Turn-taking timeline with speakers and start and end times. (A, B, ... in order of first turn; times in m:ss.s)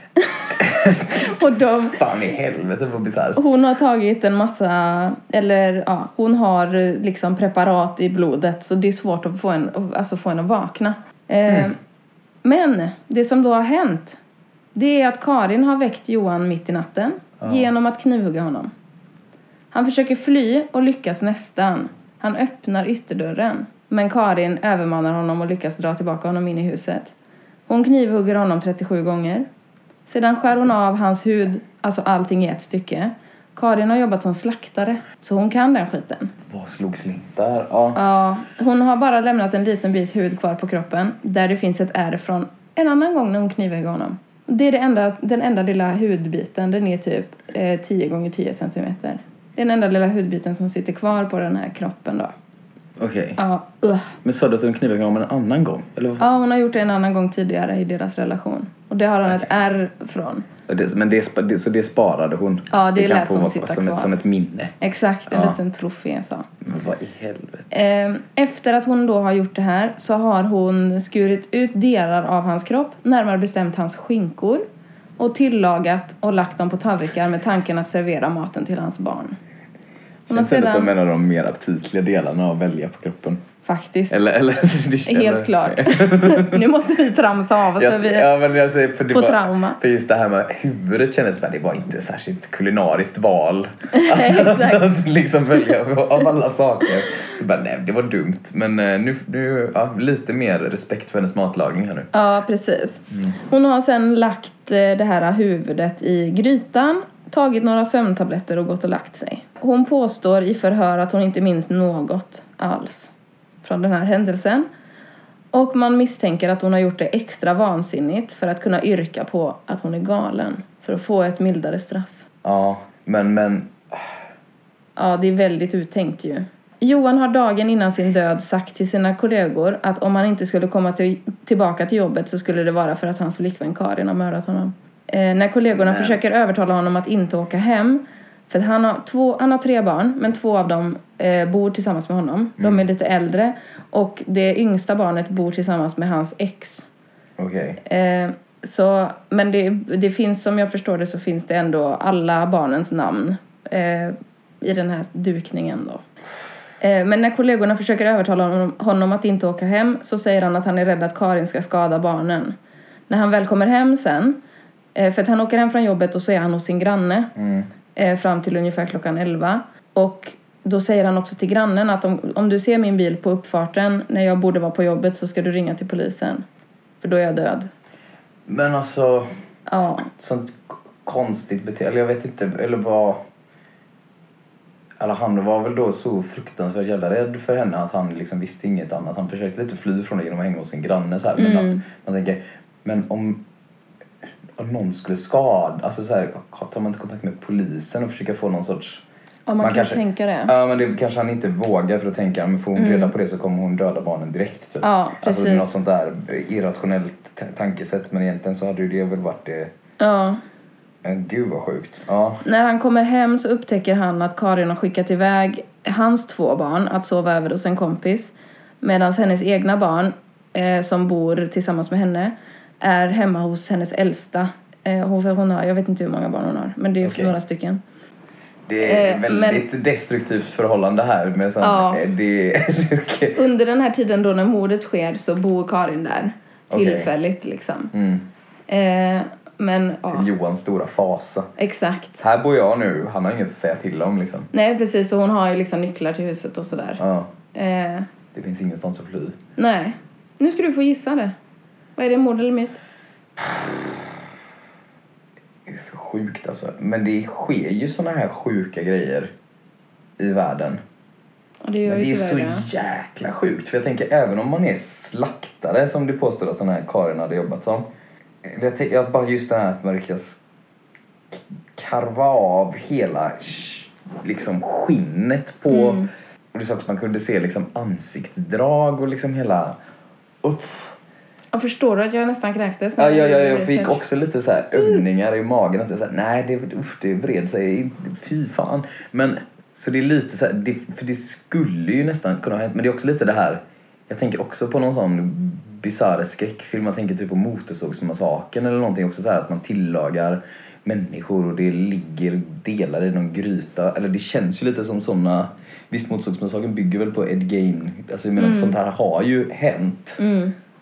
0:00.5-0:03.4 A
0:01.2-0:02.0 B
0:03.4-0:11.8 B
0:12.4-0:14.2 B
0:14.7-0:18.7 B
0:17.4-0:17.7 A
0:19.7-0:27.1 B
0:27.7-0:29.5 B
0:30.1-0:36.3 B
0:36.4-0:38.0 A
0:37.9-0:52.3 B
0:53.0-0:53.4 A
0:53.4-0:54.1 B
0:54.2-0:56.2 A
0:56.2-1:00.4 B
1:00.7-1:04.7 A
1:02.7-1:04.1 B
1:04.8-1:06.5 B
1:05.3-1:05.6 A
1:06.6-1:07.7 A
1:07.7-1:14.6 B
1:15.2-1:19.4 B
1:20.3-1:23.4 A
1:20.3-1:20.9 B
1:23.6-1:24.2 B
1:24.1-1:26.6 A
1:25.1-1:28.3 B
1:27.7-1:42.1 A
1:29.1-1:29.8 B
1:33.9-1:34.9 B
1:42.1-1:53.1 B
1:53.6-1:54.7 B
1:55.5-2:02.2 B
2:02.4-2:04.1 A
2:05.0-2:26.9 B
2:15.8-2:16.2 A
2:22.6-2:22.8 A
2:27.4-2:27.8 A
2:27.8-2:36.0 B
2:36.8-2:42.5 B
2:43.1-2:44.4 B
2:44.9-2:47.3 B
2:47.3-2:47.7 A
2:48.0-2:56.4 B
2:57.0-2:57.7 B
2:58.5-2:59.3 A
2:59.7-3:00.1 B
3:00.2-3:03.2 A
3:05.0-3:13.4 A
3:11.4-3:11.8 B
3:14.6-3:19.0 A
3:19.5-3:20.5 B
3:19.6-3:29.7 A
3:22.8-3:23.1 B
3:24.8-3:25.7 B
3:30.0-3:30.4 B
3:31.0-3:32.4 A
3:32.4-3:47.8 B
3:47.0-3:47.4 A
3:48.7-3:53.4 A
3:48.8-3:49.6 B
3:51.6-3:52.0 B
3:53.3-3:57.9 B
3:56.7-3:57.1 A
3:57.9-3:58.3 A
3:58.7-4:00.3 B
4:00.1-4:01.5 A
4:01.6-4:02.2 B
4:02.2-4:04.5 A
4:04.5-4:07.0 B
4:07.0-4:07.3 A
4:07.5-4:08.1 B
4:08.3-4:09.4 A
4:09.6-4:11.3 B
4:12.0-4:12.8 B
4:13.4-4:14.0 A
4:15.6-4:19.3 A
4:20.2-4:20.8 A
4:21.6-4:22.7 B
4:21.8-4:27.9 A
4:28.4-4:30.4 A
4:31.3-4:39.8 A
4:35.7-4:36.1 B
4:40.4-4:40.9 A
4:41.5-4:44.0 B
4:43.0-5:10.2 A
4:44.8-4:45.0 B
5:08.4-5:08.8 B
5:10.2-5:10.5 B